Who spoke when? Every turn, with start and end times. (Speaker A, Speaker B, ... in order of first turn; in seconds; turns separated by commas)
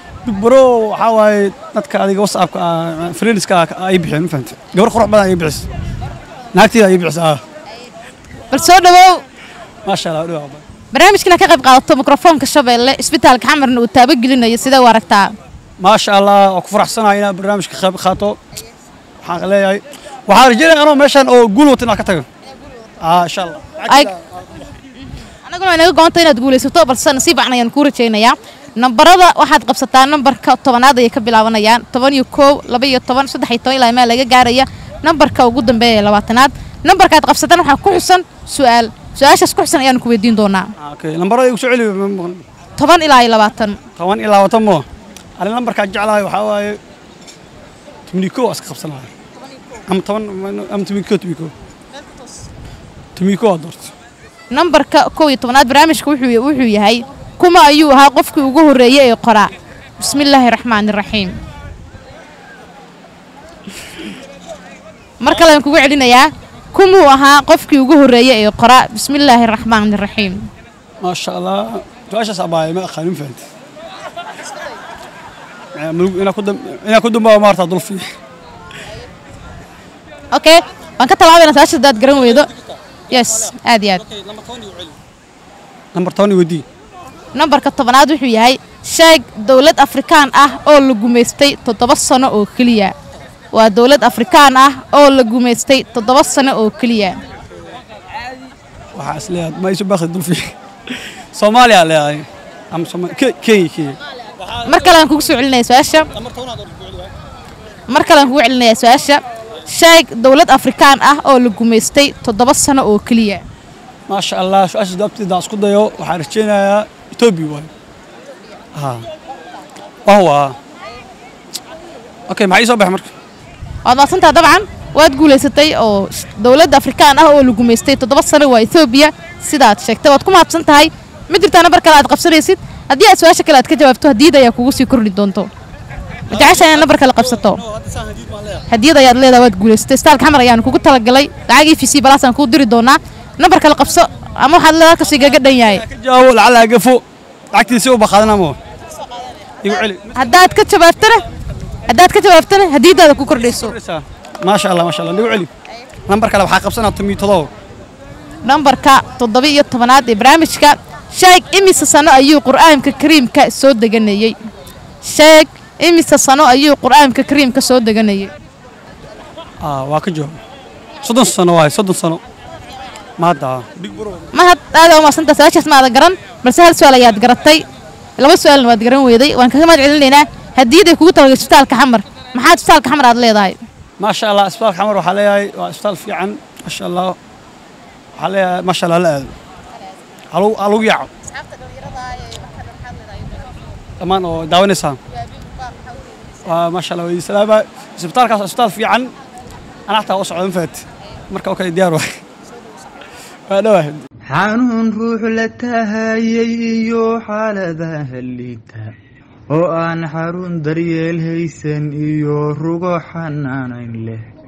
Speaker A: 0.2-5.7, Speaker A: 6.5-7.4, Speaker B: 8.5-9.2, Speaker A: 9.8-10.6, Speaker B: 10.9-15.3, Speaker A: 15.8-18.4, Speaker A: 19.2-22.2, Speaker A: 23.0-24.2, Speaker B: 25.4-40.7, Speaker A: 40.8-42.4, Speaker B: 42.8-43.8, Speaker A: 44.0-44.9, Speaker A: 45.4-46.8, Speaker A: 48.1-49.1, Speaker A: 49.9-51.5, Speaker A: 53.1-53.9, Speaker B: 54.5-61.4, Speaker B: 65.2-70.5, Speaker A: 71.0-73.4, Speaker A: 75.7-78.1, Speaker B: 80.3-82.5, Speaker B: 83.1-84.0, Speaker A: 84.3-84.8, Speaker A: 85.9-86.6, Speaker B: 87.3-92.9, Speaker B: 93.5-97.2, Speaker A: 98.9-104.0, Speaker B: 104.7-106.1, Speaker B: 107.9-113.4, Speaker A: 114.1-117.7, Speaker A: 118.8-119.0, Speaker A: 120.0-120.5, Speaker A: 122.3-123.1, Speaker B: 123.8-135.5, Speaker B: 136.3-137.6, Speaker A: 137.9-138.6, Speaker B: 138.7-145.8, Speaker A: 145.8-148.6, Speaker A: 149.6-150.1, Speaker B: 150.1-151.2, Speaker B: 151.9-153.8, Speaker A: 153.4-155.5, Speaker A: 156.1-157.5, Speaker B: 158.4-164.4, Speaker B: 165.0-168.3, Speaker A: 169.6-170.4, Speaker A: 171.0-172.2, Speaker A: 173.2-174.2, Speaker B: 174.3-177.6, Speaker B: 178.2-183.6, Speaker A: 184.0-187.2, Speaker A: 188.2-189.3, Speaker A: 190.3-191.1, Speaker A: 194.0-195.0, Speaker A: 196.4-199.1, Speaker A: 199.9-202.2, Speaker A: 203.5-204.0, Speaker C: 204.3-208.9, Speaker C: 209.5-214.2